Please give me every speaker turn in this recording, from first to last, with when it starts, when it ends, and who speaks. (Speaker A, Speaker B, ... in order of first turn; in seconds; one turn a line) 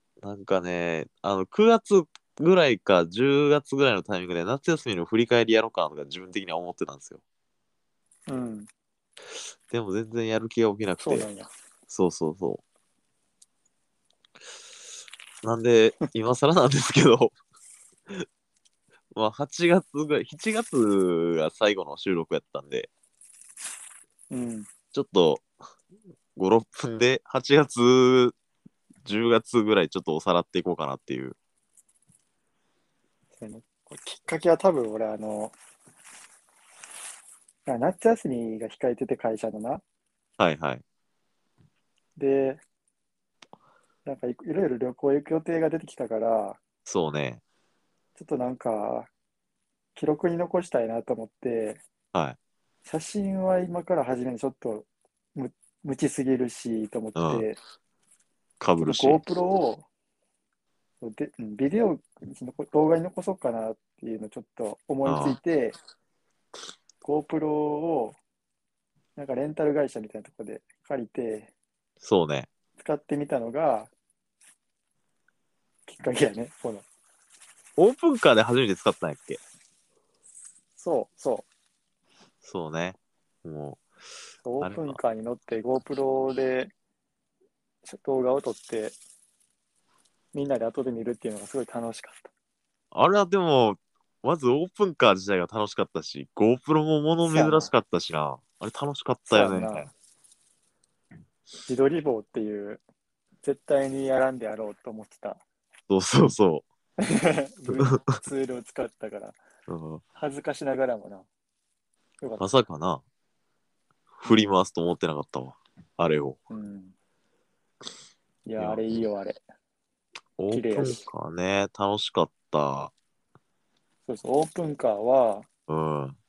Speaker A: 0.2-7.2
Speaker B: 8.3-8.7
Speaker A: 9.7-11.3
Speaker B: 11.0-11.5
Speaker A: 11.9-12.6
Speaker A: 15.4-17.3
Speaker A: 19.1-22.9
Speaker B: 24.3-24.7
Speaker A: 24.9-25.5
Speaker A: 26.4-28.3
Speaker A: 29.0-31.4
Speaker B: 33.4-35.5
Speaker B: 37.6-39.8
Speaker A: 40.4-40.8
Speaker B: 42.1-42.6
Speaker B: 44.0-46.6
Speaker A: 46.9-47.4
Speaker B: 48.2-49.1
Speaker B: 49.9-51.8
Speaker B: 52.8-57.6
Speaker A: 57.1-57.5
Speaker A: 58.6-59.2
Speaker B: 58.8-59.9
Speaker B: 61.0-65.8
Speaker A: 65.0-65.4
Speaker B: 67.0-68.2
Speaker B: 69.2-71.5
Speaker A: 72.0-72.5
Speaker B: 72.8-73.9
Speaker B: 75.9-76.8
Speaker A: 77.8-79.4
Speaker B: 80.8-81.5
Speaker A: 82.4-83.8
Speaker B: 84.4-86.7
Speaker A: 84.6-85.0
Speaker B: 87.8-89.0
Speaker B: 90.3-92.3
Speaker A: 92.9-99.9
Speaker B: 97.2-97.7
Speaker B: 99.3-99.9
Speaker B: 101.7-102.8
Speaker B: 103.4-105.4
Speaker A: 105.9-106.6
Speaker B: 107.0-109.4
Speaker A: 109.7-110.0
Speaker B: 110.1-111.2
Speaker B: 112.2-112.5
Speaker A: 112.4-113.0
Speaker A: 114.2-116.4
Speaker B: 116.5-116.9
Speaker B: 118.4-119.4
Speaker A: 118.6-119.0
Speaker A: 120.4-122.9
Speaker B: 120.5-121.0
Speaker B: 124.0-125.5
Speaker A: 125.7-126.2